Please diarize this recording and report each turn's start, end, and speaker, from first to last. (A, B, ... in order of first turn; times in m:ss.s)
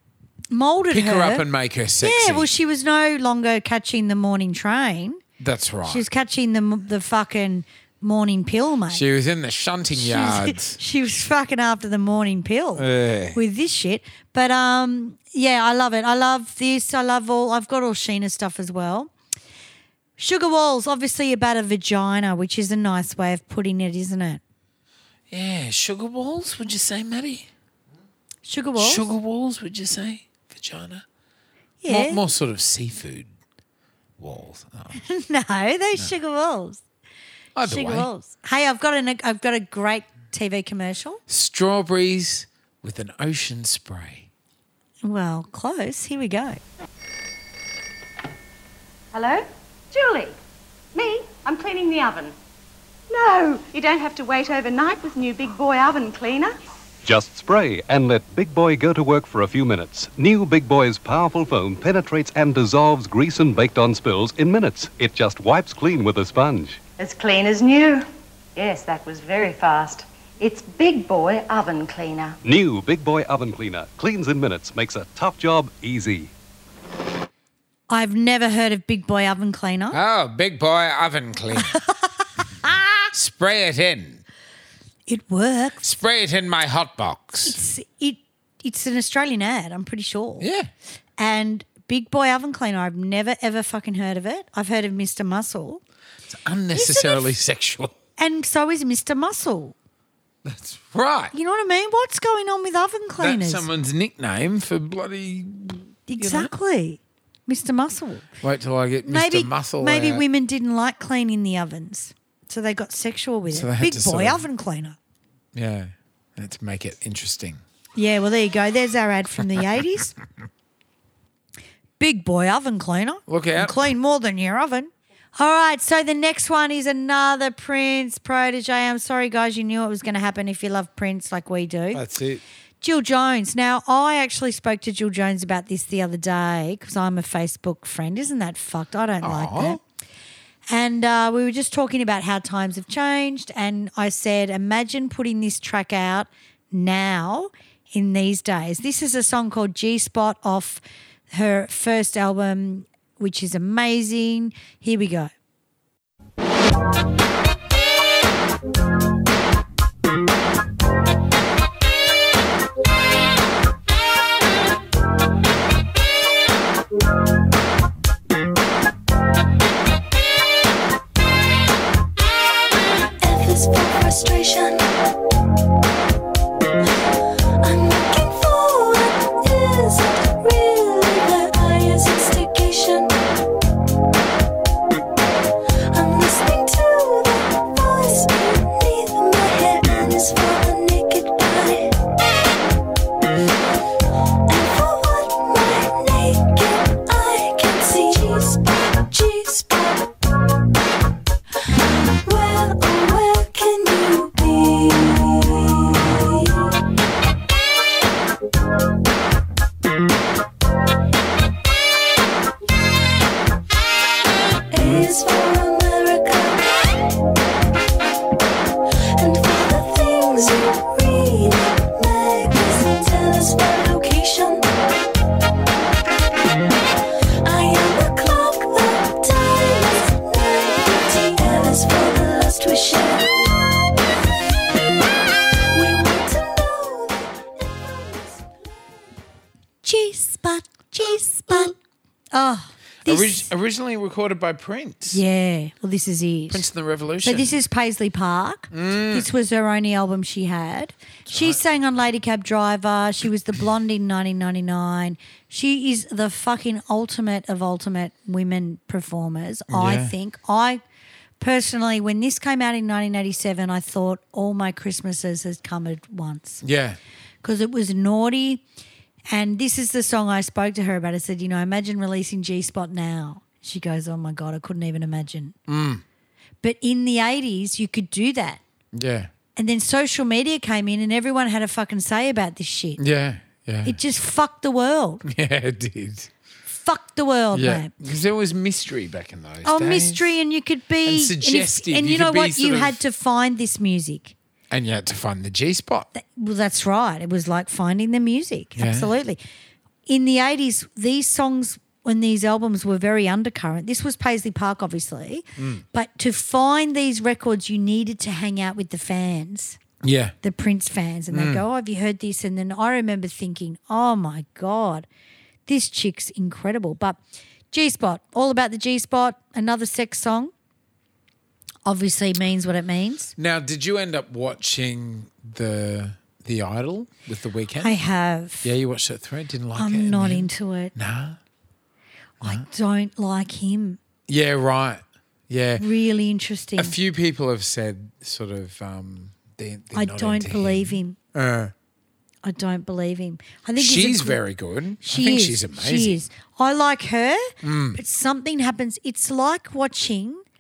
0:00.5-0:01.4 A
0:00.9-0:02.5 B
0:02.0-0:05.2 A
0:05.4-0:06.0 B
0:05.8-0:09.0 A
0:08.9-0:10.8 B
0:09.9-0:19.1 A
0:12.8-0:13.4 B
0:20.2-0:24.4 A
0:25.3-0:27.5 B
0:28.4-0:29.1 A
0:28.8-0:31.0 B
0:31.8-0:32.2 A
0:31.9-0:33.3 B
0:34.2-0:35.0 B
0:34.9-0:36.8 A
0:37.5-0:38.1 B
0:37.6-0:41.2 A
0:41.3-0:44.3 B
0:45.0-0:46.6 A
0:49.1-0:50.3 C
0:50.9-0:52.3 C
0:53.1-0:56.5 C
0:57.0-1:06.8 D
1:07.0-1:08.0 C
1:08.6-1:12.4 C
1:12.4-1:16.3 D
1:17.9-1:20.0 A
1:19.9-1:21.8 B
1:21.5-1:22.1 A
1:23.1-1:24.2 B
1:25.1-1:25.8 A
1:25.8-1:27.6 B
1:27.4-1:30.5 A
1:30.4-1:30.7 B
1:31.2-1:35.8 A
1:36.3-1:37.9 B
1:36.7-1:37.4 A
1:38.2-1:39.7 A
1:40.4-1:41.3 B
1:41.3-1:43.6 A
1:43.2-1:46.5 B
1:46.1-1:48.3 A
1:48.4-1:50.2 B
1:49.0-1:55.0 A
1:53.5-1:54.4 B
1:55.5-1:57.6 B
1:58.0-2:00.1 A
2:02.0-2:12.0 A
2:03.3-2:03.9 B
2:11.9-2:12.4 B
2:12.8-2:19.8 A
2:19.2-2:19.8 B
2:20.7-2:35.3 A
2:53.2-2:55.1 E
2:57.6-3:03.3 E
3:05.9-3:11.9 E
3:14.5-3:20.1 E
3:21.7-3:26.8 E
3:34.7-3:36.9 E
3:39.2-3:44.7 E
3:47.4-3:53.5 E
3:55.7-3:58.6 E
3:59.8-4:01.7 A
4:02.3-4:03.5 A
4:03.0-4:05.2 B
4:05.1-4:06.6 A
4:06.5-4:07.6 B
4:07.2-4:20.8 A
4:08.7-4:09.3 B
4:11.3-4:11.6 B
4:19.7-4:20.1 B
4:21.4-4:26.6 A
4:26.6-4:27.0 B
4:27.4-4:28.6 A
4:29.3-4:35.5 A
4:35.7-4:36.0 B
4:36.6-4:38.6 A
4:38.9-4:39.3 B
4:39.6-4:43.0 A
4:43.0-4:44.0 B
4:43.8-4:45.2 A
4:45.2-4:46.3 B
4:46.7-4:47.9 A
4:47.5-4:50.4 B
4:49.6-4:54.3 A
4:51.0-4:53.0 B
4:54.7-4:56.1 B
4:56.1-4:59.4 A
4:58.8-4:59.1 B
5:00.1-5:09.8 A
5:05.6-5:05.8 B
5:10.0-5:10.4 B
5:10.4-5:15.0 A
5:11.3-5:11.6 B
5:15.7-5:17.2 A
5:17.7-5:20.5 A
5:21.8-5:23.3 A
5:23.4-5:28.0 B
5:27.8-5:28.7 A
5:28.6-5:31.4 B
5:29.8-5:30.9 A
5:32.4-5:34.0 A
5:34.3-5:35.8 B
5:35.8-5:37.0 A
5:36.8-5:41.7 B
5:39.9-5:41.2 A
5:42.4-5:44.4 A
5:43.8-5:46.2 B
5:45.0-5:50.4 A
5:47.6-5:48.0 B